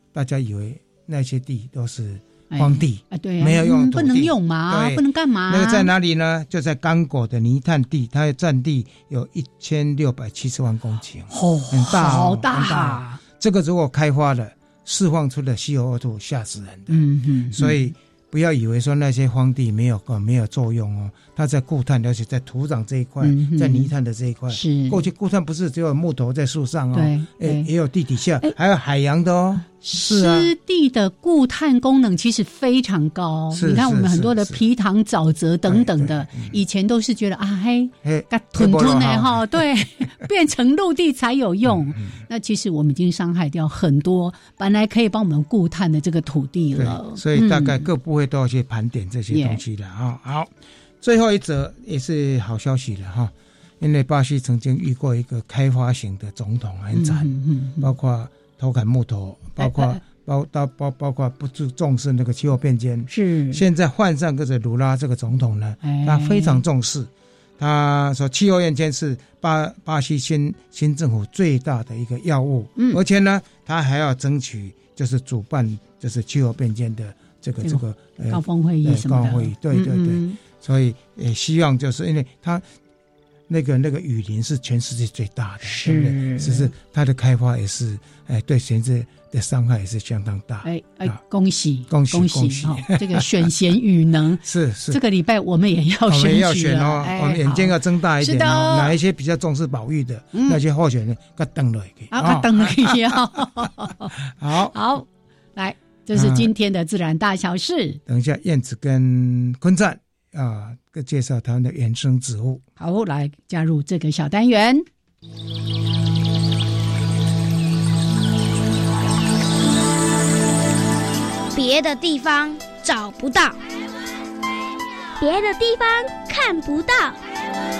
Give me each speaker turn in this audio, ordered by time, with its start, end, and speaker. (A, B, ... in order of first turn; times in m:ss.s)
0:00.1-0:30.5 A
0:02.5-0:05.9 B
0:11.3-0:13.2 B
0:16.9-0:17.9 B
0:23.2-0:23.9 B
0:24.5-0:25.0 B
0:26.9-0:27.7 B
0:29.8-0:47.9 B
0:33.5-0:34.6 A
0:35.7-0:36.6 A
0:38.0-0:39.5 A
0:41.7-0:42.2 A
0:46.8-0:50.5 A
0:49.3-0:49.6 B
0:51.0-1:22.6 A
0:56.9-0:57.9 B
0:59.6-1:00.0 B
1:03.1-1:03.6 B
1:05.8-1:06.6 B
1:17.6-1:20.4 B
1:23.5-1:31.2 A
1:25.6-1:26.7 B
1:30.6-1:39.0 B
1:31.9-1:33.5 A
1:34.4-1:35.0 A
1:36.1-1:43.2 A
1:40.3-1:40.6 B
1:42.1-1:44.1 B
1:44.3-1:44.8 A
1:44.7-1:48.0 B
1:46.1-1:46.5 A
1:48.1-1:52.6 A
1:52.8-1:54.8 B
2:01.5-2:03.6 C
2:05.2-2:07.2 C